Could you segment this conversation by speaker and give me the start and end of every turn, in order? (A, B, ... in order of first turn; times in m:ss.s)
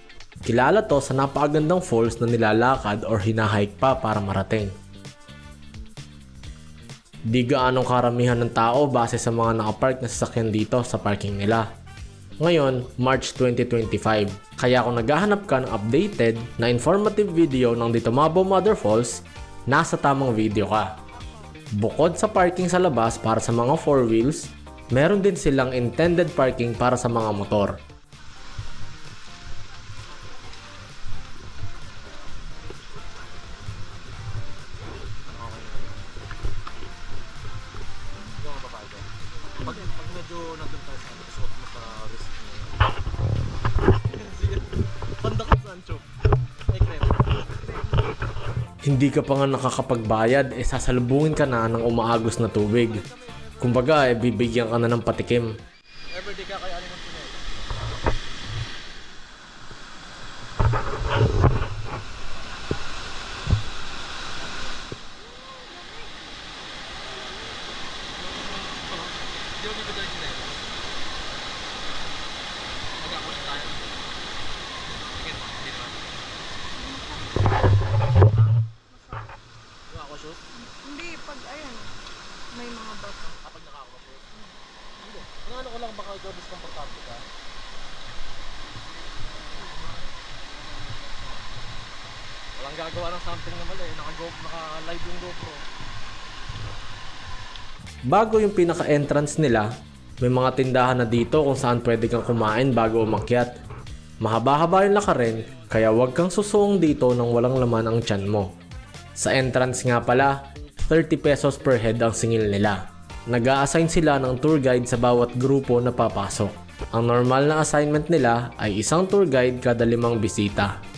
0:00.5-0:04.7 A
0:07.3-0:11.7 A
0:12.4-0:20.9 A
0:21.8-0:27.8 A
0:35.3-0:36.0 B
0:38.3-0:42.8 B
0:44.0-0:46.0 B
0:46.7-0:47.4 B
0:48.8-0:53.0 A
0:53.6-0:55.5 A
0:56.1-0:57.4 B
1:05.4-1:06.1 C
1:08.2-1:10.6 B
1:13.0-1:14.0 B
1:15.1-1:16.0 B
1:16.8-1:17.6 C
1:18.2-1:18.6 B
1:18.9-1:19.2 C
1:19.9-1:20.4 B
1:20.6-1:21.9 C
1:22.5-1:23.3 C
1:23.3-1:24.5 B
1:25.0-1:27.2 B
1:29.5-1:30.1 B
1:30.7-1:31.0 C
1:32.6-1:35.6 B
1:38.1-1:39.7 A
1:40.2-1:43.5 A
1:44.2-1:48.5 A
1:45.1-1:45.8 B
1:49.2-1:50.4 A
1:50.9-2:00.7 A